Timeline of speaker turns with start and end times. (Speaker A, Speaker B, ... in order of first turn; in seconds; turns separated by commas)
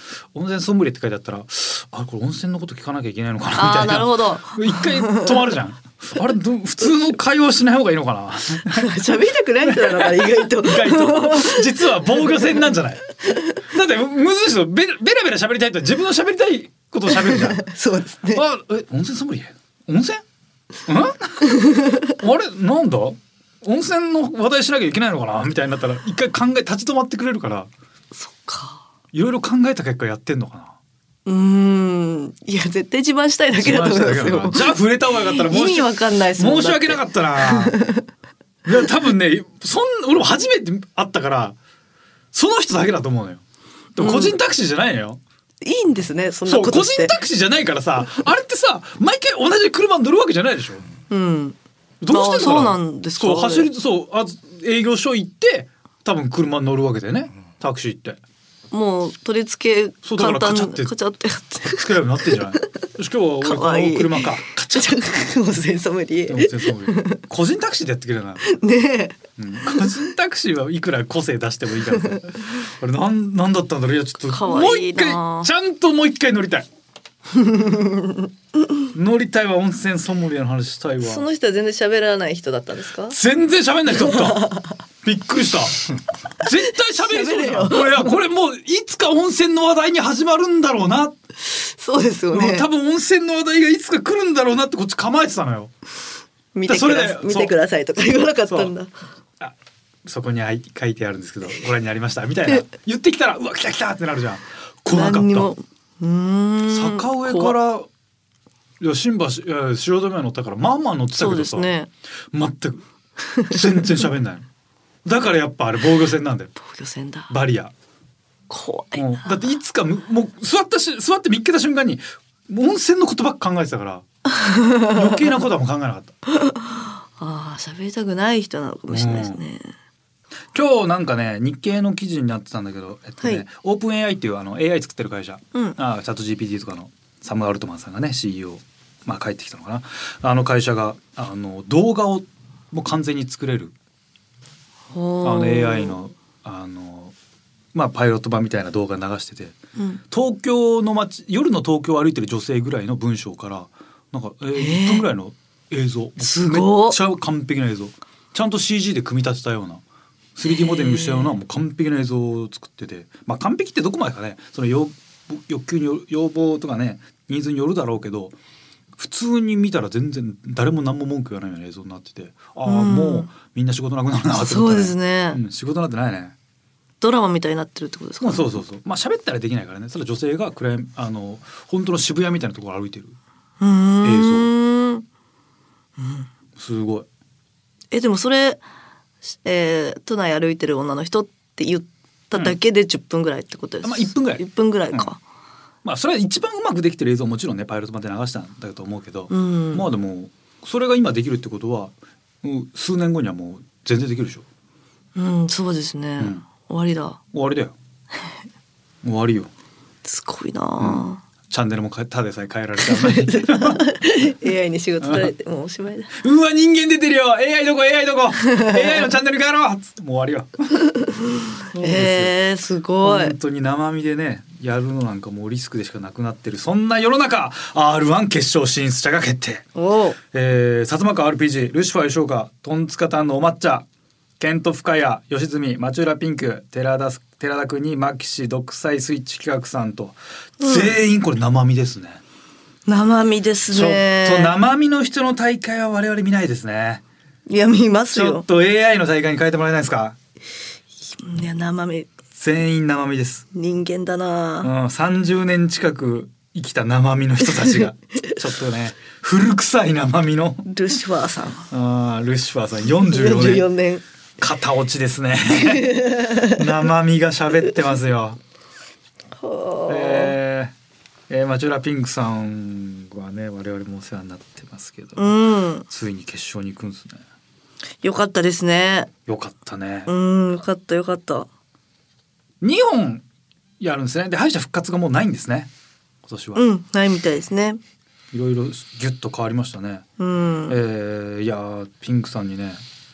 Speaker A: 0.3-9.0, Speaker B: 3.5-5.4, Speaker B: 8.7-12.5, Speaker A: 9.7-13.1, Speaker B: 13.3-13.6, Speaker A: 13.6-17.6, Speaker B: 17.1-18.4, Speaker A: 18.3-20.2, Speaker A: 20.9-21.6, Speaker B: 21.4-22.2, Speaker A: 22.2-27.7, Speaker B: 28.1-28.8, Speaker A: 29.1-30.8, Speaker B: 31.3-38.1, Speaker A: 33.6-37.8, Speaker A: 38.6-41.6, Speaker A: 42.3-43.4, Speaker A: 44.0-45.2, Speaker B: 44.0-44.4, Speaker B: 45.6-47.2, Speaker A: 46.5-50.8, Speaker B: 51.1-51.6, Speaker A: 52.0-58.2, Speaker B: 52.1-53.7, Speaker B: 58.7-62.9, Speaker A: 60.0-60.9, Speaker A: 61.7-65.3, Speaker B: 63.4-67.2, Speaker A: 66.3-68.4, Speaker B: 68.4-69.9, Speaker A: 69.4-76.7, Speaker B: 74.3-75.5, Speaker B: 77.3-78.3, Speaker A: 78.9-81.3, Speaker B: 81.0-83.2, Speaker A: 83.1-84.5, Speaker B: 83.9-84.8, Speaker A: 85.0-91.2, Speaker B: 86.4-88.1, Speaker B: 91.4-92.7, Speaker A: 92.3-95.7, Speaker B: 96.5-98.9, Speaker A: 96.7-97.5, Speaker A: 99.4-105.5, Speaker B: 104.9-107.6, Speaker A: 106.7-107.9, Speaker A: 108.8-111.7, Speaker B: 111.2-111.9, Speaker A: 112.3-112.9, Speaker B: 113.2-113.6, Speaker A: 113.5-114.5, Speaker A: 115.0-116.5, Speaker B: 116.6-117.3, Speaker A: 117.3-117.7, Speaker B: 118.5-119.4, Speaker A: 119.0-124.0, Speaker B: 124.3-125.0, Speaker A: 124.9-126.2, Speaker B: 126.3-129.7, Speaker A: 128.9-129.4, Speaker A: 130.5-143.7, Speaker B: 144.9-146.0, Speaker A: 145.2-147.2, Speaker A: 147.7-149.6, Speaker B: 149.8-150.0, Speaker A: 150.1-159.8, Speaker B: 154.6-155.1, Speaker B: 156.2-157.0, Speaker A: 160.4-168.3, Speaker B: 160.4-161.4, Speaker A: 169.0-176.3, Speaker B: 172.7-173.3, Speaker B: 174.3-175.4, Speaker B: 177.0-178.6, Speaker A: 178.2-183.2, Speaker B: 183.6-185.1, Speaker A: 184.0-184.5, Speaker B: 186.0-186.3, Speaker A: 186.6-187.1, Speaker B: 187.9-188.6, Speaker B: 189.4-195.2, Speaker A: 193.8-195.1, Speaker A: 195.8-204.4, Speaker B: 199.3-199.9, Speaker B: 205.2-207.2, Speaker A: 206.2-206.4, Speaker A: 207.3-207.8, Speaker A: 209.0-209.5, Speaker B: 210.0-211.2, Speaker A: 210.8-213.8, Speaker B: 212.8-216.2, Speaker A: 215.0-215.3, Speaker A: 216.2-220.9, Speaker B: 218.5-218.8, Speaker B: 220.9-223.3, Speaker A: 221.7-222.4, Speaker A: 223.0-229.7, Speaker B: 229.8-230.2, Speaker A: 230.3-233.9, Speaker A: 234.4-242.2, Speaker B: 240.6-241.0, Speaker B: 242.9-244.5, Speaker A: 243.7-247.0, Speaker B: 247.5-248.4, Speaker A: 248.1-250.2, Speaker B: 251.1-252.1, Speaker A: 252.3-253.4, Speaker B: 253.5-254.7, Speaker A: 254.6-260.7, Speaker B: 257.6-258.3, Speaker B: 260.7-261.7, Speaker A: 261.7-263.7, Speaker B: 263.0-264.0, Speaker A: 264.4-268.4, Speaker B: 265.5-266.7, Speaker B: 269.4-270.4, Speaker A: 269.9-270.7, Speaker A: 271.3-277.2, Speaker B: 275.2-275.9, Speaker B: 278.0-279.1, Speaker A: 279.3-280.1, Speaker B: 280.1-281.5, Speaker A: 282.6-283.2, Speaker A: 283.8-285.7, Speaker A: 286.2-286.6, Speaker B: 286.6-287.8, Speaker A: 288.3-290.1, Speaker B: 290.2-290.8, Speaker A: 290.7-292.8